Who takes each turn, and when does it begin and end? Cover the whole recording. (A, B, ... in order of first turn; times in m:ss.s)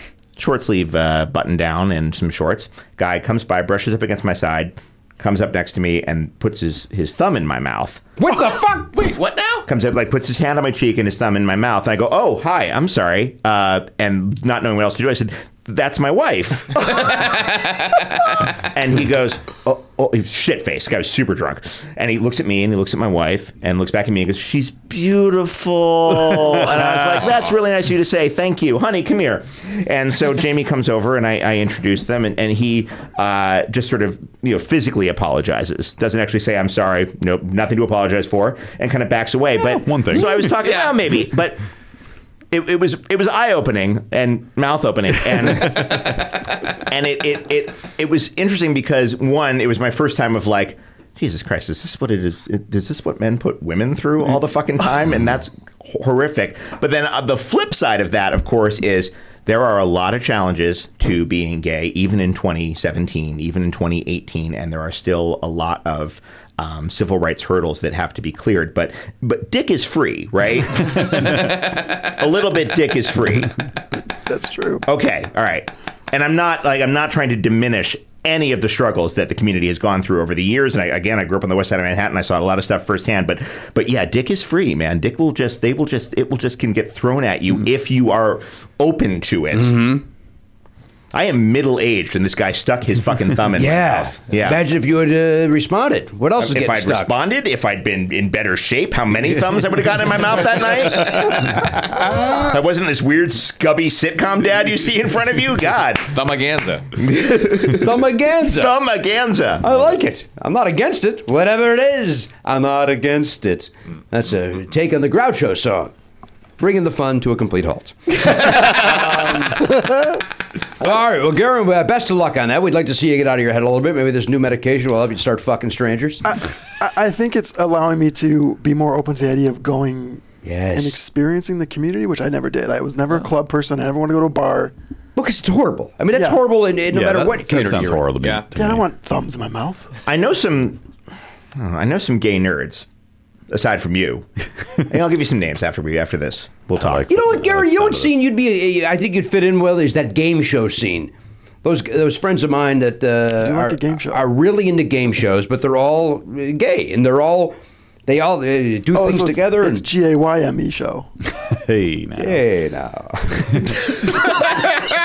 0:00.4-0:08.1 A
0:08.2-0:09.2 B
0:09.0-0:09.6 C
0:09.6-0:17.6 A
0:18.6-0:41.6 A
0:39.7-0:40.3 D
0:40.6-0:40.9 C
0:42.5-1:13.6 A
1:14.3-1:14.8 E
1:14.8-1:30.0 A
1:31.1-1:34.6 A
1:33.5-1:37.1 B
1:36.4-1:46.1 A
1:46.1-1:46.9 C
1:47.0-1:49.7 A
1:47.6-1:48.8 B
1:49.6-1:55.9 B
1:56.6-2:00.2 B
2:00.8-2:06.3 B
2:06.3-2:14.7 E
2:10.4-2:11.0 B
2:15.2-2:18.0 B
2:16.1-2:16.4 E
2:16.9-2:18.9 D
2:18.2-2:18.5 C
2:18.6-2:19.9 E
2:20.1-2:20.8 A
2:21.6-2:22.9 A
2:23.5-2:24.3 A
2:24.8-2:27.2 A
2:26.8-2:28.2 D
2:27.1-2:39.9 B
2:33.4-2:34.3 E
2:38.9-2:41.1 E
2:41.5-2:42.4 D
2:42.2-2:44.1 B